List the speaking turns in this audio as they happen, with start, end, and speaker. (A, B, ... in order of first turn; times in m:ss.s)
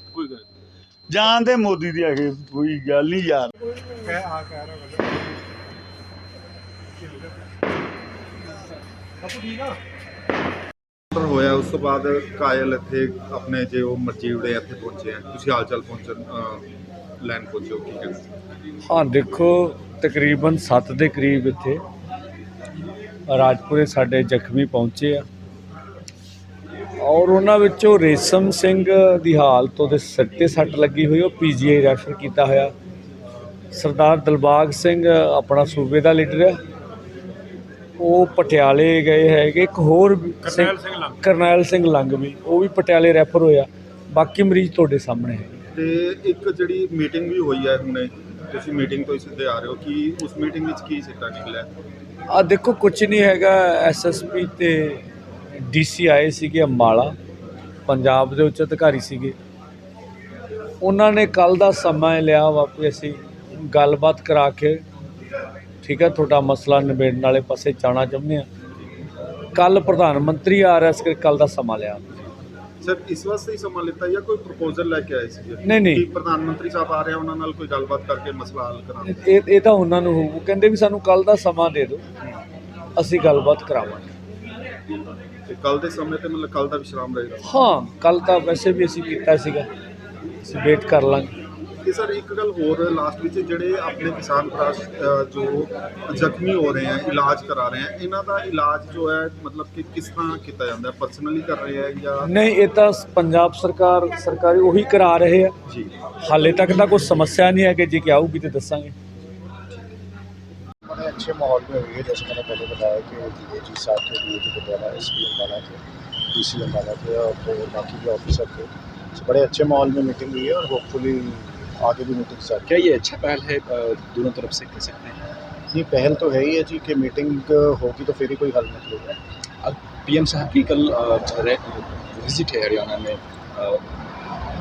0:01.1-0:03.5 A
0:11.1-0:16.7 B
0:17.2-0:18.2 B
0:18.8-0:21.8 C
0:23.3-0:25.2 C
0:27.0-0:32.7 C
0:33.7-0:36.6 C
0:38.0-0:45.6 C
0:45.7-0:51.7 B
0:52.3-0:55.0 C
0:55.6-0:57.1 C
0:57.9-0:59.4 C
1:00.8-1:04.8 C
1:05.8-1:08.5 C
1:09.5-1:12.1 C
1:12.8-1:19.2 B
1:15.6-1:16.0 C
1:19.0-1:22.0 C
1:23.0-1:24.1 C
1:25.5-1:27.5 B
1:27.4-1:29.7 C
1:30.4-1:31.3 C
1:31.8-1:42.3 B
1:42.2-1:45.5 C
1:45.6-1:45.9 B
1:46.2-1:48.9 C
1:50.9-2:02.7 D
2:02.6-2:05.2 E
2:05.7-2:09.2 D
2:09.6-2:13.8 E